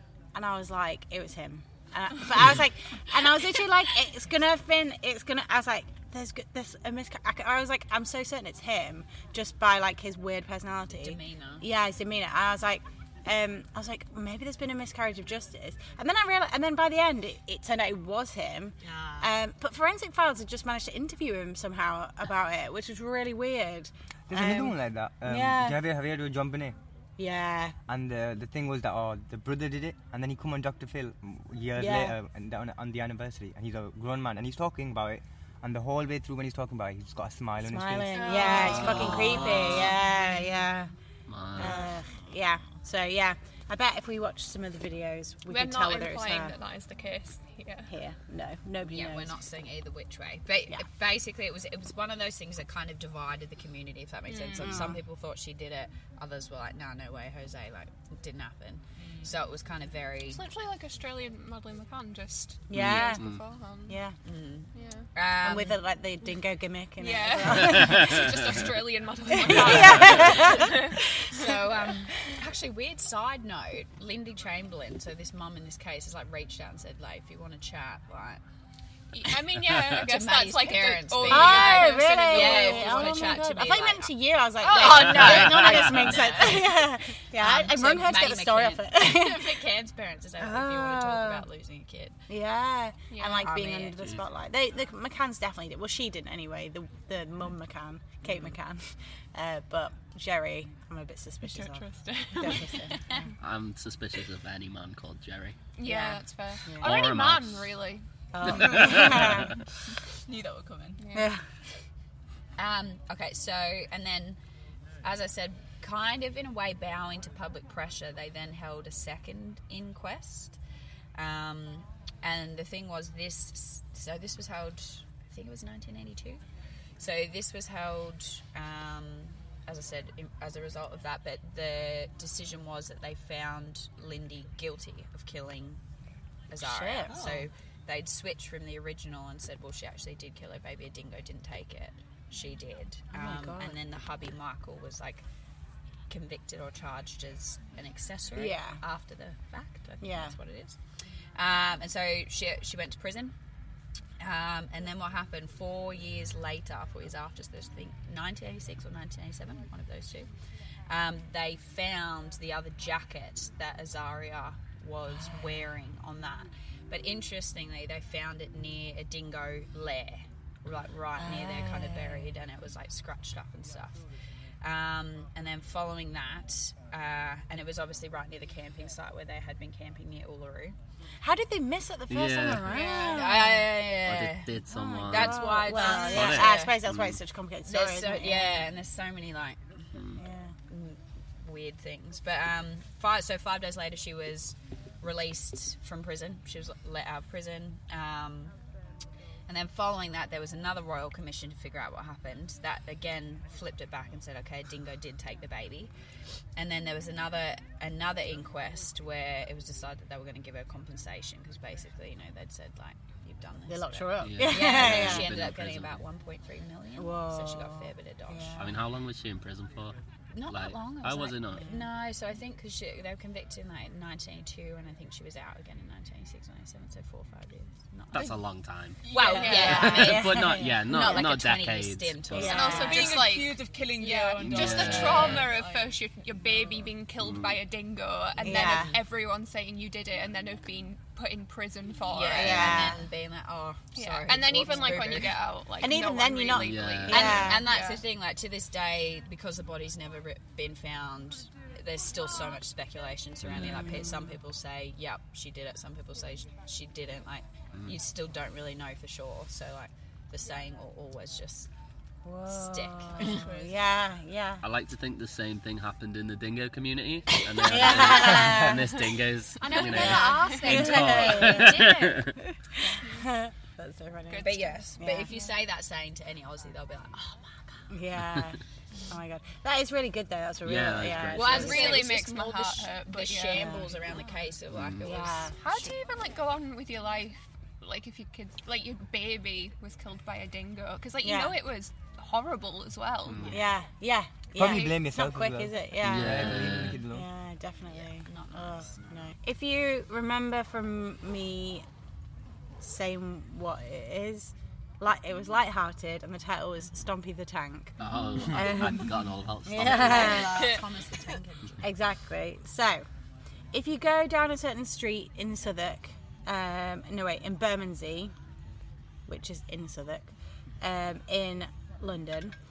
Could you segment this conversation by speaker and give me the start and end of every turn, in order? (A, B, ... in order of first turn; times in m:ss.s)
0:00.3-0:25.8 A
0:10.9-0:11.7 B
0:24.3-0:26.8 C
0:27.2-0:27.8 A
0:27.9-0:38.3 C
0:31.8-0:32.2 A
0:37.6-0:40.9 A
0:38.1-0:40.1 D
0:38.6-0:40.0 E
0:41.3-0:41.9 E
0:41.5-0:46.5 A
0:45.5-0:47.9 D
0:47.9-0:49.4 A
0:48.9-1:00.4 B
0:54.3-0:54.8 D
0:54.6-0:55.0 A
1:00.3-1:04.0 D
1:02.7-1:03.2 A
1:02.7-1:03.4 E
1:03.9-1:04.2 A
1:04.2-1:05.8 B
1:04.8-1:05.1 D
1:05.4-1:08.2 A
1:07.0-1:11.0 D
1:07.8-1:08.2 E
1:09.3-1:11.1 A
1:10.0-1:10.6 B
1:11.3-1:18.4 B
1:19.1-1:23.4 D
1:19.8-1:32.2 B
1:21.3-1:29.6 A
1:24.6-1:25.4 D
1:25.2-1:25.9 E
1:30.4-1:31.4 A
1:32.3-1:43.2 A
1:33.1-1:33.5 D
1:33.4-1:34.0 B
1:41.4-1:42.9 D
1:43.4-1:45.6 E
1:45.8-1:48.0 D
1:45.8-1:46.9 A
1:46.8-1:47.7 E
1:48.3-1:49.5 A
1:48.4-1:49.5 E
1:50.3-1:51.0 F
1:51.0-1:51.3 D
1:51.1-1:51.4 A
1:52.6-1:54.4 B
1:55.0-2:00.6 B
2:01.2-2:06.4 B
2:07.0-2:15.8 B
2:16.5-2:25.2 B
2:16.6-2:17.4 A
2:23.1-2:23.8 A
2:26.1-2:30.8 B
2:28.4-2:28.8 A
2:30.0-2:30.4 A
2:31.4-2:33.3 B
2:34.2-2:40.3 B
2:40.9-2:54.0 B
2:51.2-2:52.3 A
2:54.6-3:00.8 B
3:01.2-3:03.7 A
3:02.1-3:02.9 E
3:02.7-3:03.4 D
3:02.9-3:06.8 B
3:04.0-3:07.2 E
3:04.7-3:08.7 A
3:07.6-3:09.8 B
3:09.9-3:10.2 E
3:10.2-3:10.5 A
3:10.7-3:18.5 B
3:19.5-3:25.9 B
3:26.6-3:38.6 B
3:33.7-3:35.3 A
3:34.2-3:36.0 E
3:37.0-3:38.8 A
3:38.6-3:40.0 E
3:40.3-3:48.4 B
3:40.5-3:41.7 E
3:41.6-3:41.8 A
3:48.1-3:49.0 E
3:49.1-3:49.6 F
3:49.1-3:53.2 B
3:49.3-3:51.0 A
3:49.4-3:49.9 D
3:49.6-3:52.8 E
3:52.3-3:53.3 A
3:52.5-4:02.8 D
3:52.9-3:55.9 F
3:54.4-3:55.5 E
3:57.2-3:57.6 E
3:58.4-3:59.0 B
3:58.4-3:59.0 A
4:02.1-4:05.3 B
4:02.4-4:03.0 A
4:02.4-4:02.9 E
4:04.0-4:08.0 D
4:05.8-4:07.6 A
4:06.5-4:07.6 E
4:07.1-4:21.7 B
4:13.5-4:14.4 A
4:22.2-4:24.6 A
4:22.5-4:23.5 B
4:23.2-4:23.8 F
4:24.6-4:32.3 E
4:27.6-4:29.2 A
4:29.6-4:32.9 B
4:29.8-4:35.3 A
4:34.3-4:35.5 D
4:34.4-4:37.8 B
4:37.9-4:42.1 A
4:40.6-4:42.0 E
4:41.3-4:45.9 B
4:41.4-4:43.8 D
4:43.5-4:43.9 A
4:44.7-4:45.1 E
4:45.0-4:45.6 A
4:45.6-4:53.8 D
4:51.2-4:51.6 A
4:53.3-4:53.6 E
4:53.5-5:01.8 A
4:54.6-4:57.3 C
4:54.6-4:54.9 D
4:56.0-4:57.0 E
4:57.9-4:59.1 B
5:02.8-5:09.1 A
5:08.0-5:10.5 E
5:09.7-5:10.8 A
5:09.9-5:11.8 B
5:11.8-5:13.0 A
5:13.7-5:18.3 A
5:19.3-5:22.6 A